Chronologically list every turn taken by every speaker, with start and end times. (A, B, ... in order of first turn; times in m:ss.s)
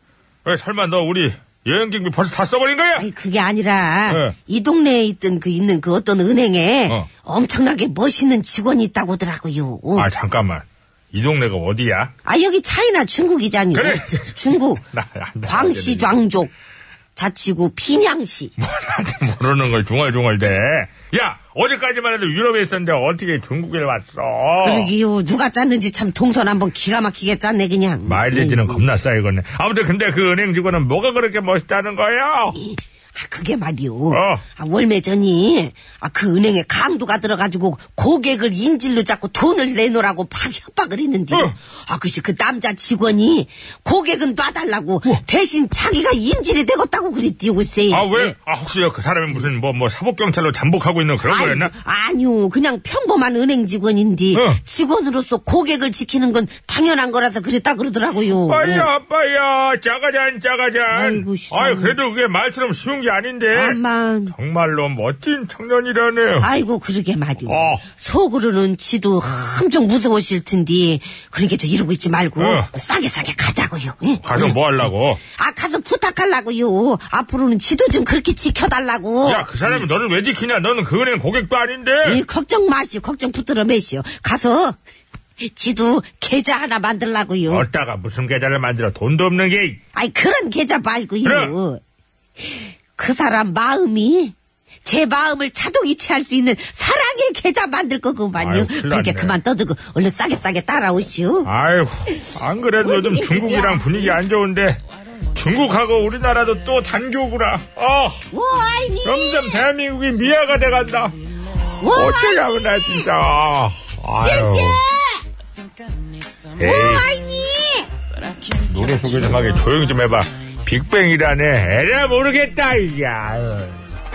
0:00.4-0:03.1 A
0:03.0-0:10.1 B
0:04.1-0:04.4 A
0:10.0-0:12.1 A
0:12.2-0:14.8 B
0:13.7-0:16.2 A
0:15.5-0:16.5 B
0:17.2-0:18.5 B
0:18.6-0:24.9 A
0:24.6-0:28.8 B
0:28.1-0:32.6 A
0:32.6-0:48.3 B
0:34.1-0:34.4 A
0:47.9-0:51.7 A
0:51.3-0:58.9 B
0:54.3-0:54.6 A
0:58.4-1:03.8 A
1:00.9-1:02.0 B
1:03.5-1:04.3 B
1:04.3-1:06.5 A
1:06.4-1:14.5 B
1:07.5-1:07.9 A
1:12.4-1:12.7 A
1:14.2-1:15.2 A
1:15.3-1:19.4 B
1:19.2-1:22.2 A
1:22.0-1:24.8 B
1:25.4-1:27.7 B
1:27.5-1:29.8 A
1:29.9-1:31.8 B
1:31.2-1:31.5 A
1:33.0-1:41.5 B
1:38.4-1:39.4 A
1:41.5-1:44.8 A
1:42.8-1:44.1 B
1:45.3-1:48.2 A
1:48.3-1:49.6 B
1:49.0-1:51.1 A
1:51.8-1:53.0 B
1:51.8-1:54.8 A
1:54.2-1:55.2 B
1:56.6-1:57.1 A
1:56.6-1:57.9 B
1:58.7-2:03.8 A